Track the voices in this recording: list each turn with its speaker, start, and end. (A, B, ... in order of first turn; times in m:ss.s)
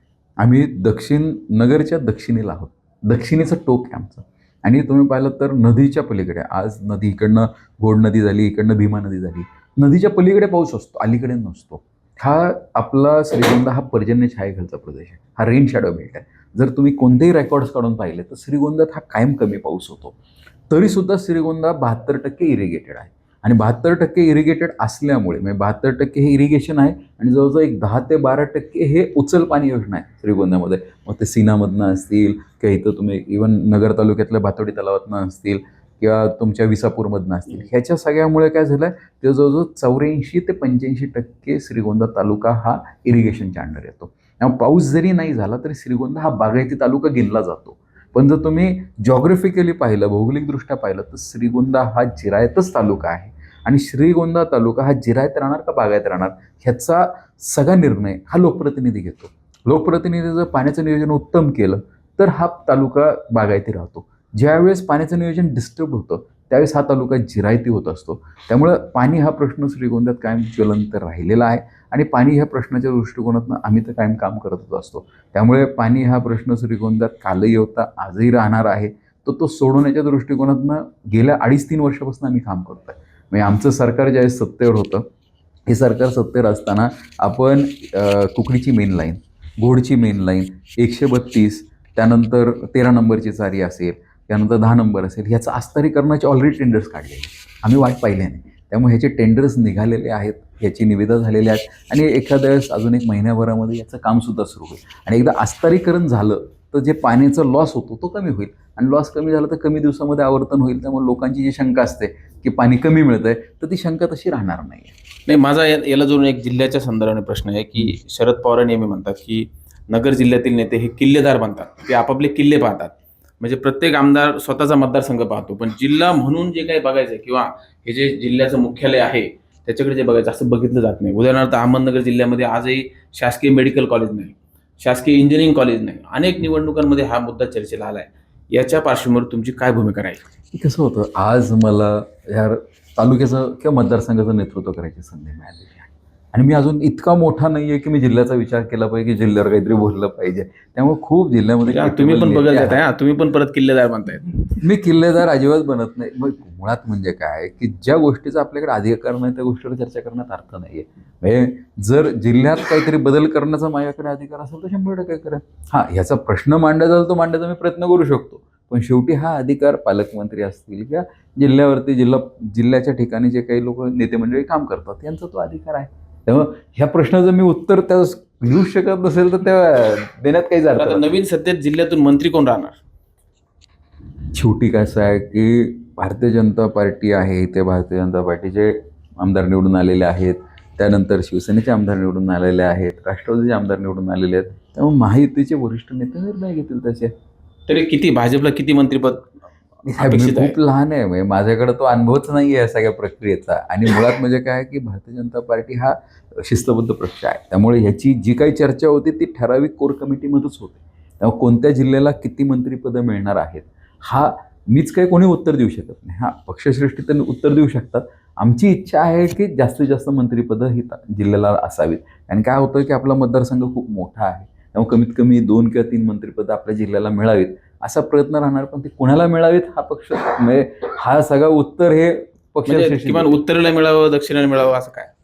0:00.4-0:20.1 A
0:20.7-1:25.1 A
1:25.7-1:55.0 A
1:55.3-2:20.2 B
2:20.5-2:32.8 A
2:31.6-2:34.3 B
2:34.6-3:01.1 A
3:00.7-3:02.8 B
3:04.3-3:17.1 A
3:17.7-3:19.3 B
3:19.8-3:53.4 A
3:20.0-3:20.6 B
3:52.6-3:55.1 B